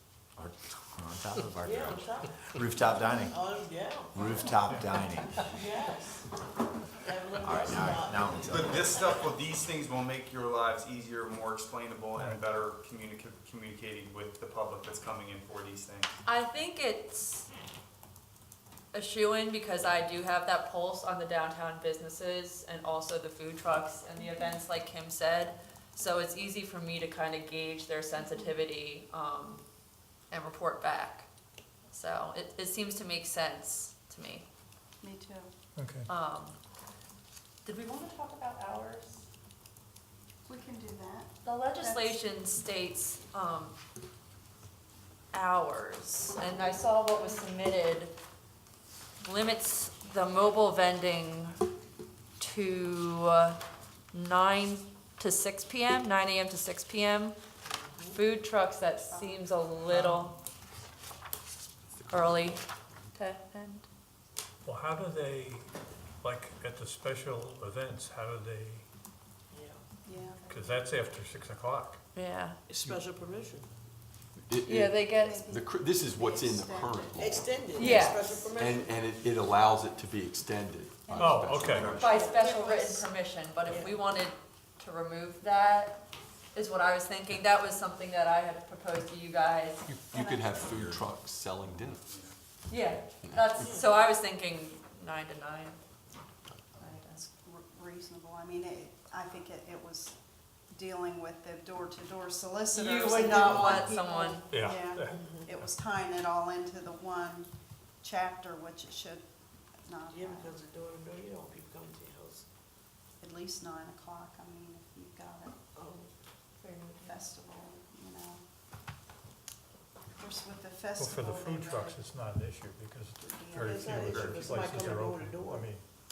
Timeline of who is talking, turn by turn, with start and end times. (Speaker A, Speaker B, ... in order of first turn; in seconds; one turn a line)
Speaker A: 0.4-3.4
Speaker B: 1.6-2.3
Speaker B: 2.9-4.4
Speaker A: 4.1-5.3
Speaker B: 5.5-6.2
Speaker B: 7.0-9.2
Speaker A: 7.4-8.9
Speaker C: 8.5-16.1
Speaker D: 12.1-12.4
Speaker E: 16.2-17.5
Speaker E: 18.9-29.6
Speaker F: 28.1-28.5
Speaker E: 30.3-31.3
Speaker E: 31.9-34.5
Speaker F: 35.0-35.5
Speaker D: 35.8-36.0
Speaker E: 36.1-36.6
Speaker E: 37.6-39.2
Speaker F: 40.5-42.2
Speaker E: 41.4-43.8
Speaker E: 45.3-48.1
Speaker E: 49.2-51.6
Speaker E: 52.4-53.6
Speaker E: 54.1-57.4
Speaker B: 57.6-58.2
Speaker E: 58.1-60.4
Speaker F: 59.1-59.4
Speaker E: 62.1-62.6
Speaker E: 63.1-63.9
Speaker D: 64.6-65.7
Speaker D: 66.2-68.8
Speaker B: 69.5-69.8
Speaker F: 70.0-70.5
Speaker D: 70.5-72.0
Speaker E: 72.1-72.6
Speaker B: 72.7-73.7
Speaker G: 74.5-77.8
Speaker E: 74.6-75.5
Speaker F: 75.2-77.3
Speaker B: 77.2-78.9
Speaker E: 77.7-78.3
Speaker F: 78.0-78.5
Speaker G: 78.5-82.0
Speaker F: 81.0-82.8
Speaker D: 81.2-82.0
Speaker B: 81.6-83.1
Speaker E: 82.0-86.0
Speaker B: 83.6-84.0
Speaker E: 86.5-90.8
Speaker G: 89.9-92.0
Speaker E: 92.7-95.8
Speaker E: 96.8-97.3
Speaker F: 97.2-100.1
Speaker F: 100.7-107.5
Speaker E: 102.7-104.5
Speaker B: 103.1-103.8
Speaker D: 104.5-105.3
Speaker B: 105.2-105.4
Speaker F: 108.0-109.2
Speaker F: 109.8-110.5
Speaker B: 110.1-112.4
Speaker F: 113.2-115.6
Speaker B: 115.7-116.1
Speaker E: 116.6-117.3
Speaker F: 117.0-118.4
Speaker F: 120.1-122.0
Speaker D: 121.0-125.8
Speaker F: 123.2-124.0
Speaker B: 123.6-125.7